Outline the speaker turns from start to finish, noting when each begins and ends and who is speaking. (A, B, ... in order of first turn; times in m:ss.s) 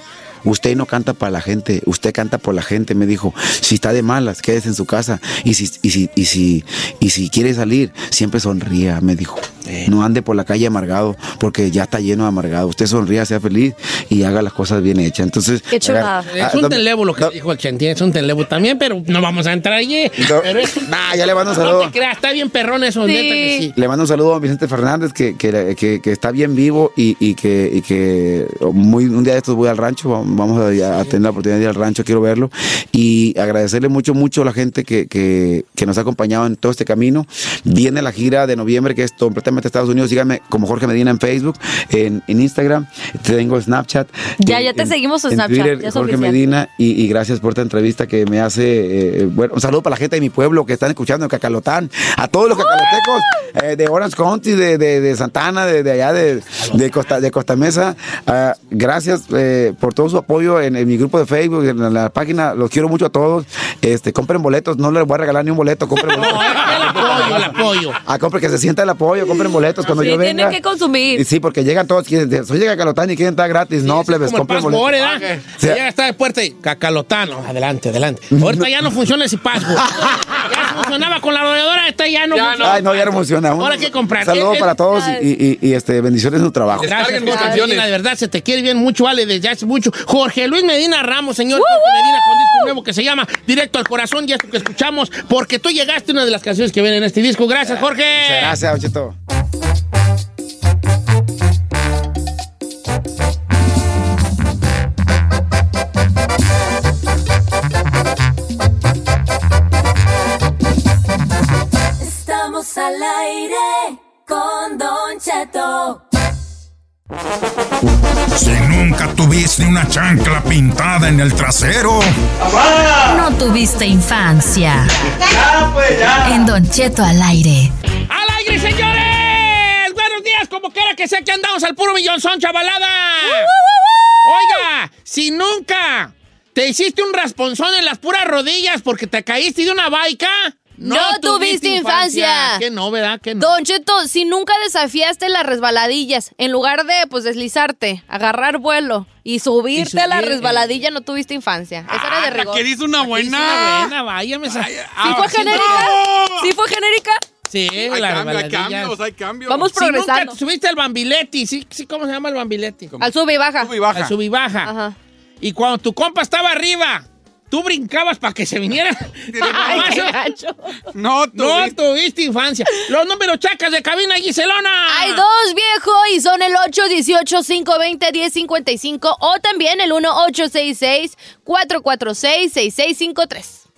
0:00.4-0:17.3 A
0:09.6-0:09.9 B
0:15.7-0:16.3 C
0:16.2-0:23.7 B
0:20.2-0:21.9 A
0:23.0-0:23.6 C
0:23.7-1:15.0 A
0:44.4-0:46.4 C
0:52.6-0:53.0 C
1:06.1-1:08.0 B
1:07.0-1:07.4 D
1:09.8-1:11.2 C
1:13.8-1:24.7 B
1:15.0-1:15.4 D
1:18.3-1:18.7 A
1:19.7-1:20.2 A
1:22.3-1:22.9 D
1:22.6-1:27.3 A
1:24.9-1:25.2 C
1:26.7-1:27.9 D
1:26.8-1:38.6 B
1:27.3-1:27.6 C
1:31.5-1:32.7 C
1:37.6-1:39.1 A
1:52.3-1:53.6 E
1:54.3-1:56.0 E
1:58.3-2:02.1 F
2:02.4-2:03.2 A
2:03.1-2:04.8 C
2:03.4-2:04.8 E
2:05.3-2:06.5 A
2:06.3-2:07.7 E
2:06.7-2:07.0 C
2:08.1-2:13.5 B
2:13.2-2:14.6 C
2:14.2-2:23.6 B
2:20.8-2:22.6 C
2:23.4-2:32.7 C
2:29.7-2:30.8 B
2:31.9-2:33.9 D
2:33.0-2:35.9 B
2:34.4-2:36.5 D
2:35.0-2:37.2 C
2:37.5-2:38.9 B
2:37.8-2:39.7 D
2:39.5-2:40.4 C
2:39.6-2:42.9 B
2:42.9-2:44.1 D
2:43.0-2:43.7 C
2:43.9-2:44.7 B
2:44.6-2:44.9 C
2:45.4-2:50.2 B
2:49.3-2:50.1 D
2:49.4-2:50.8 C
2:50.9-2:51.7 D
2:51.3-2:55.2 B
2:54.9-3:03.6 C